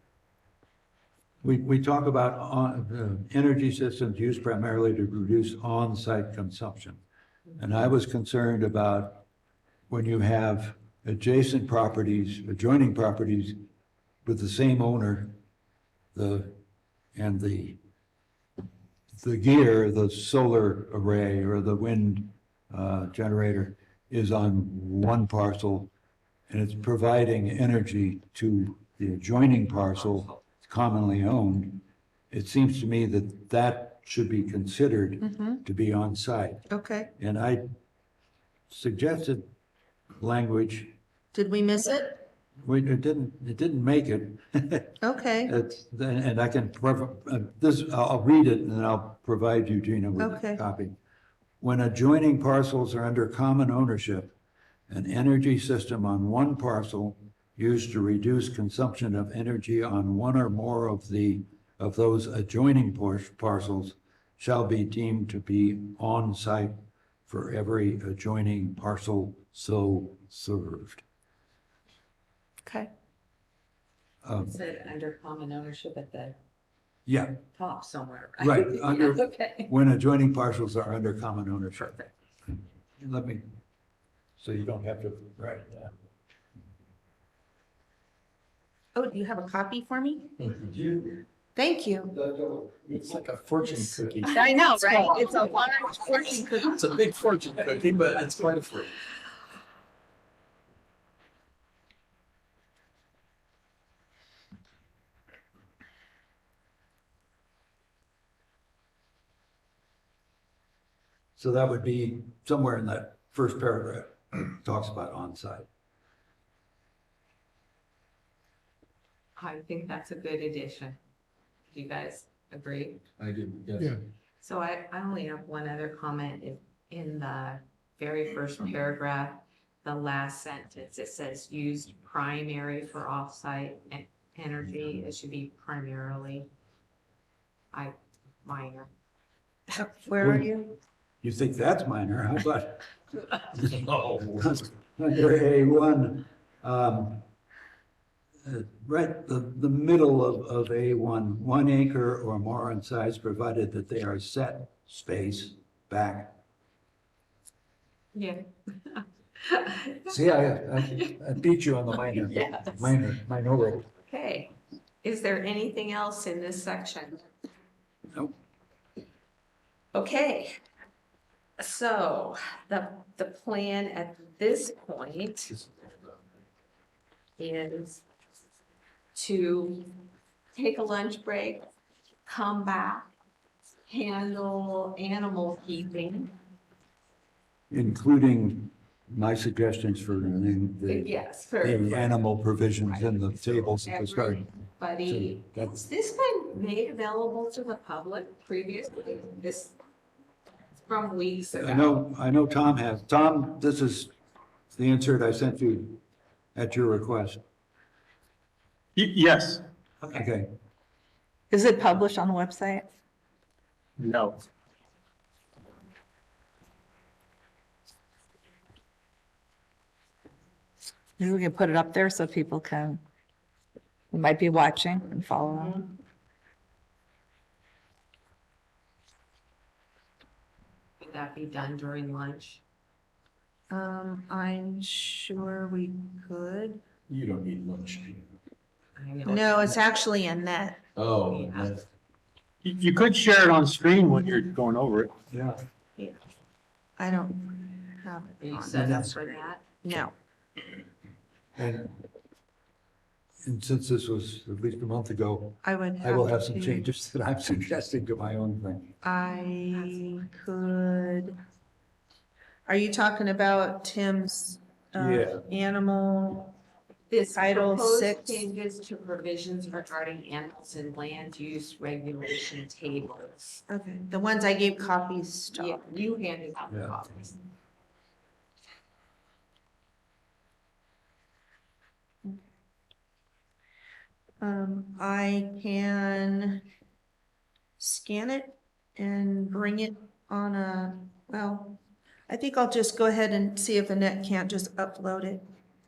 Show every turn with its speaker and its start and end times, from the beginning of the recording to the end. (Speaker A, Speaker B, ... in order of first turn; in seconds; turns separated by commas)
Speaker A: 1.4-7.0, Speaker A: 7.6-9.2, Speaker A: 9.9-13.6, Speaker A: 14.2-15.4, Speaker A: 16.1-16.6, Speaker A: 17.1-17.8, Speaker A: 19.1-25.9, Speaker A: 26.5-36.6, Speaker B: 35.2-35.6, Speaker B: 36.7-37.1, Speaker A: 37.2-37.6, Speaker A: 38.7-39.5, Speaker A: 40.2-40.9, Speaker B: 41.3-42.2, Speaker A: 42.6-51.0, Speaker B: 45.0-45.5, Speaker B: 50.2-50.6, Speaker A: 51.6-54.4, Speaker A: 54.9-71.0, Speaker B: 72.6-72.9, Speaker A: 74.2-74.5, Speaker C: 74.4-76.4, Speaker A: 77.0-77.4, Speaker C: 77.5-79.7, Speaker A: 78.4-82.0, Speaker C: 81.8-82.1, Speaker A: 83.0-83.5, Speaker A: 84.4-85.9, Speaker B: 88.9-90.3, Speaker B: 91.5-92.2, Speaker A: 92.2-94.2, Speaker D: 93.1-94.9, Speaker B: 94.3-96.8, Speaker C: 95.1-95.5, Speaker D: 96.7-98.9, Speaker A: 111.4-115.7, Speaker C: 119.4-121.0, Speaker C: 121.7-123.0, Speaker D: 123.2-124.0, Speaker C: 124.4-136.5, Speaker C: 137.7-138.9, Speaker B: 139.7-140.8, Speaker A: 140.2-140.5, Speaker A: 141.2-142.9, Speaker A: 143.5-147.2, Speaker A: 148.4-156.3, Speaker C: 158.1-160.1, Speaker A: 160.0-163.9, Speaker C: 162.0-162.9, Speaker C: 164.1-167.2, Speaker C: 169.9-170.6, Speaker C: 171.6-175.5, Speaker C: 177.4-178.0, Speaker C: 179.1-180.0, Speaker C: 180.5-181.6, Speaker C: 182.2-183.1, Speaker C: 183.9-186.3, Speaker A: 187.7-194.4, Speaker C: 190.8-192.3, Speaker C: 192.8-199.7, Speaker A: 195.1-195.8, Speaker C: 200.8-202.0, Speaker A: 201.5-204.1, Speaker A: 204.7-206.0, Speaker A: 206.5-207.4, Speaker E: 208.9-209.6, Speaker A: 210.0-210.5, Speaker F: 211.5-212.8, Speaker E: 214.0-214.4, Speaker F: 221.2-223.0, Speaker F: 224.1-225.8, Speaker C: 231.0-232.6, Speaker B: 233.7-236.8, Speaker D: 237.1-238.2, Speaker C: 239.0-240.0, Speaker B: 239.2-240.8, Speaker D: 240.9-241.8, Speaker C: 241.2-241.8, Speaker E: 242.6-245.1, Speaker A: 245.3-245.6, Speaker B: 247.0-250.1, Speaker C: 248.4-249.6, Speaker A: 248.7-249.1, Speaker A: 251.6-251.9, Speaker A: 253.4-258.9, Speaker B: 255.6-256.9, Speaker B: 259.0-261.4, Speaker C: 259.7-260.0, Speaker B: 262.6-266.5, Speaker A: 264.9-265.4, Speaker C: 267.1-273.6, Speaker B: 267.3-268.4, Speaker B: 273.7-275.8, Speaker C: 275.5-277.4, Speaker A: 276.7-276.9, Speaker B: 284.4-286.6, Speaker B: 287.8-295.4